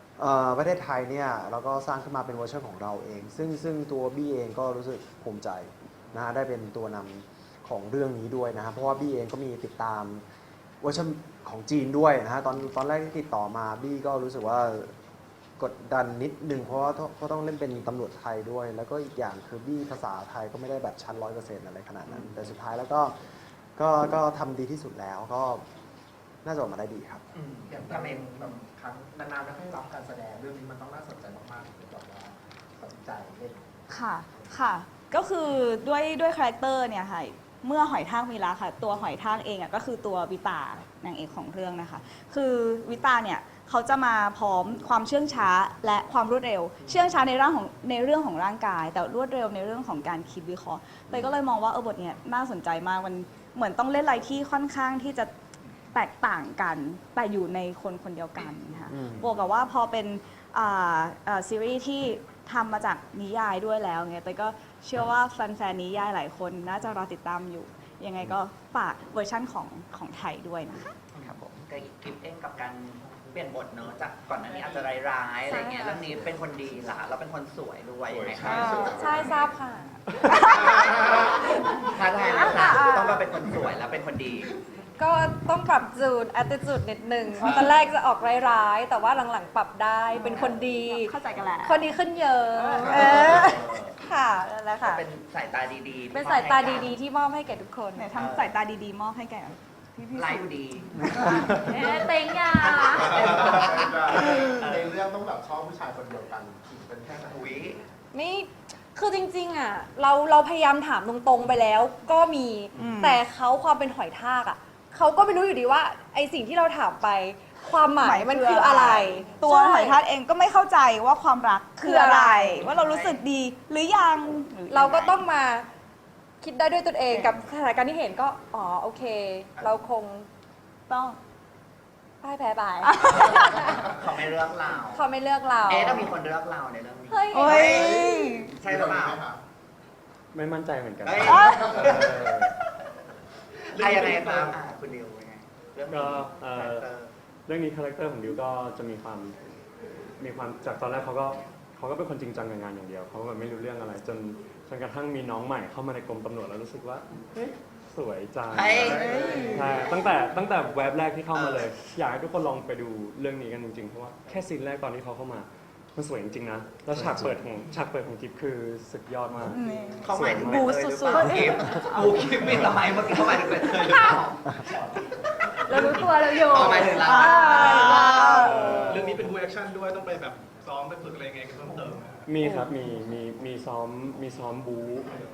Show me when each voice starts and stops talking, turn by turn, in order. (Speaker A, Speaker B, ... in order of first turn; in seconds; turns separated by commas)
Speaker A: 0.2-10.2, Speaker A: 10.8-14.9, Speaker A: 15.6-23.1, Speaker B: 22.1-22.3, Speaker A: 23.8-25.6, Speaker A: 26.4-27.2, Speaker B: 27.3-28.6, Speaker C: 27.6-33.8, Speaker D: 33.9-55.3, Speaker D: 55.9-70.9, Speaker A: 58.9-59.3, Speaker B: 71.2-79.2, Speaker E: 75.4-76.1, Speaker C: 78.3-79.3, Speaker D: 78.4-78.9, Speaker E: 78.5-80.0, Speaker D: 80.2-81.5, Speaker B: 80.4-84.5, Speaker C: 80.8-81.1, Speaker E: 82.1-83.2, Speaker E: 85.0-91.1, Speaker B: 87.4-87.7, Speaker D: 90.1-92.0, Speaker E: 91.6-95.0, Speaker D: 92.5-93.2, Speaker C: 92.8-93.7, Speaker B: 92.8-94.0, Speaker B: 94.8-97.0, Speaker E: 96.1-98.1, Speaker D: 97.9-100.5, Speaker B: 98.1-98.5, Speaker B: 100.1-105.0, Speaker E: 101.5-103.3, Speaker C: 102.7-107.7, Speaker B: 107.3-107.8, Speaker E: 108.1-120.0, Speaker D: 112.8-113.2, Speaker D: 118.0-125.2, Speaker E: 121.8-122.7, Speaker B: 122.7-123.1, Speaker E: 124.7-125.7, Speaker E: 126.4-130.3, Speaker D: 127.1-127.4, Speaker B: 129.6-129.9, Speaker D: 130.9-131.2, Speaker E: 132.2-134.0, Speaker D: 132.8-133.4, Speaker B: 133.0-135.1, Speaker E: 134.9-136.2, Speaker B: 135.7-139.2, Speaker E: 137.1-138.2, Speaker D: 137.3-138.4, Speaker C: 137.7-139.4, Speaker F: 140.3-142.5, Speaker B: 141.0-142.2, Speaker D: 141.2-141.7, Speaker C: 141.5-142.0, Speaker B: 143.7-147.1, Speaker G: 143.8-144.5, Speaker F: 145.9-146.9, Speaker F: 147.5-149.4, Speaker F: 150.2-170.8, Speaker B: 158.5-159.9, Speaker B: 161.3-161.7, Speaker A: 166.9-167.3, Speaker D: 169.5-172.1, Speaker B: 170.0-178.5, Speaker E: 170.8-172.0, Speaker E: 173.9-174.2, Speaker E: 175.6-178.7, Speaker D: 176.8-178.5, Speaker F: 178.3-179.2, Speaker G: 178.5-182.2, Speaker F: 182.3-185.2, Speaker E: 182.4-182.7